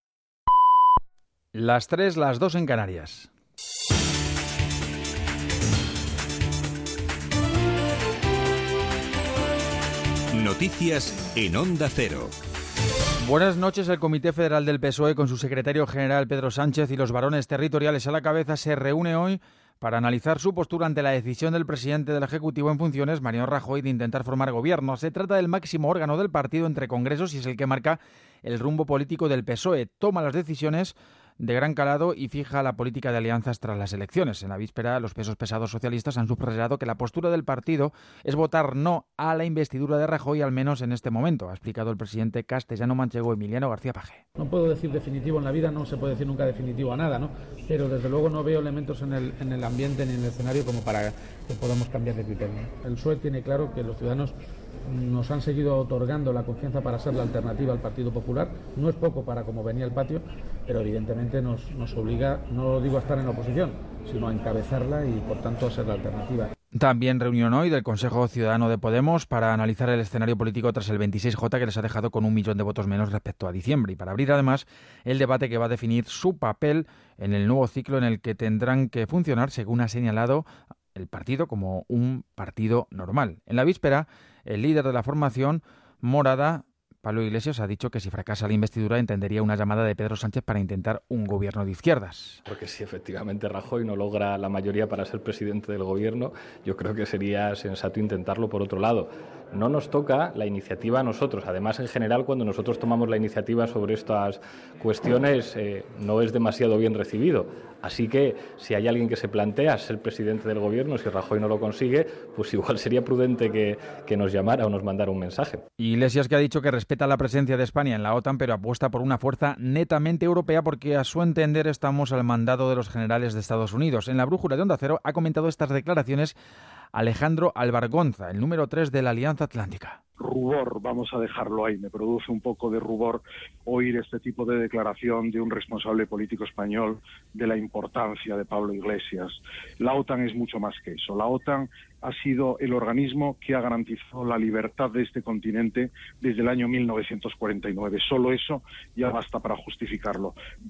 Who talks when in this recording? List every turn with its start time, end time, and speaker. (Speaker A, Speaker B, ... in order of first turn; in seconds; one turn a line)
Speaker A: 1.5-3.3
Speaker B: 10.3-12.3
Speaker A: 13.2-44.2
Speaker C: 44.4-54.3
Speaker C: 54.8-66.5
Speaker A: 66.8-92.4
Speaker D: 92.5-115.6
Speaker A: 115.8-126.3
Speaker A: 126.9-130.0
Speaker E: 130.2-150.3